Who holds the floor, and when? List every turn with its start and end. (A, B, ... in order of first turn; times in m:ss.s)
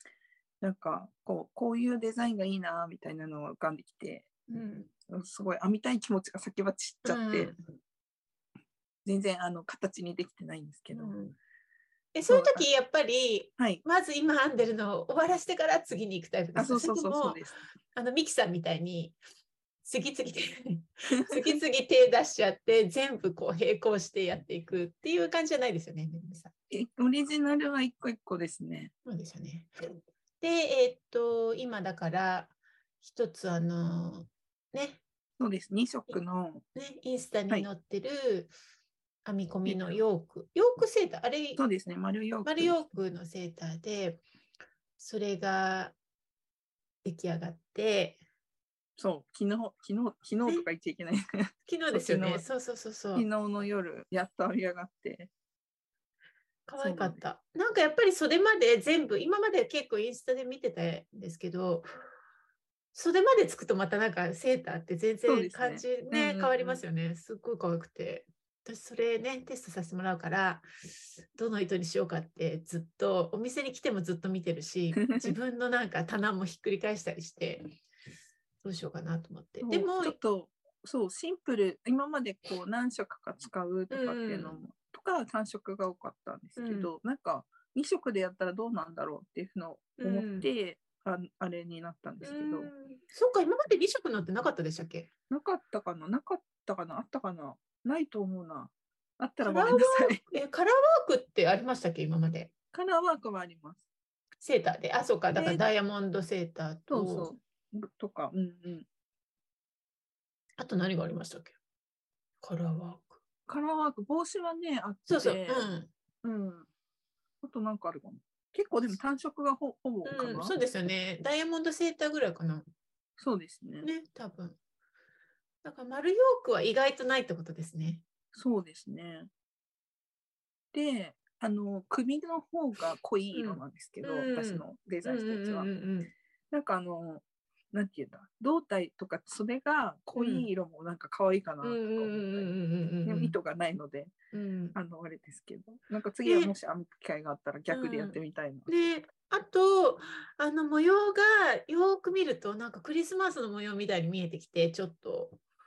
0:00.6-0:04.3 A
0:04.5-0:04.9 B
0:05.1-0:07.5 A
0:07.0-0:07.6 B
0:09.0-0:11.1 A
0:10.9-0:11.4 B
0:12.1-0:17.4 B
0:12.3-0:12.7 A
0:13.6-0:13.8 A
0:16.5-0:17.6 A
0:17.9-0:19.2 B
0:19.8-0:26.5 B
0:21.3-0:21.6 A
0:26.7-0:28.9 A
0:29.0-0:35.0 B
0:35.4-0:36.6 A
0:36.7-0:38.5 B
0:39.2-0:41.6 B
0:39.7-0:40.0 A
0:41.6-0:43.0 A
0:42.4-0:44.2 B
0:45.0-0:45.9 B
0:47.0-0:48.2 B
0:49.0-0:52.4 A
0:51.7-0:53.3 B
0:53.1-0:55.3 A
0:56.7-1:01.9 B
0:56.8-0:57.2 A
1:02.9-1:10.6 B
1:05.3-1:06.8 A
1:11.3-1:17.7 B
1:15.0-1:15.3 A
1:18.6-1:20.2 B
1:19.6-1:32.7 A
1:23.9-1:24.6 B
1:26.6-1:26.9 B
1:30.0-1:30.5 B
1:32.2-1:35.1 B
1:35.3-1:40.2 A
1:39.4-1:42.5 B
1:42.7-1:43.8 A
1:44.4-1:47.3 B
1:45.3-1:45.6 A
1:46.9-1:48.9 A
1:50.6-1:51.5 B
1:52.4-1:53.2 B
1:53.5-1:55.7 A
1:55.1-1:55.9 B
1:56.2-1:56.7 A
1:57.4-2:00.5 A
2:00.0-2:02.6 B
2:03.2-2:03.9 A
2:03.8-2:04.6 B
2:05.6-2:08.0 B
2:08.3-2:09.3 A
2:10.7-2:15.7 A
2:13.3-2:16.1 B
2:16.5-2:22.5 A
2:20.1-2:20.5 B
2:21.6-2:23.4 B
2:23.0-2:24.1 A
2:24.3-2:24.8 B
2:24.7-2:28.7 A
2:26.2-2:26.5 B
2:27.7-2:35.4 B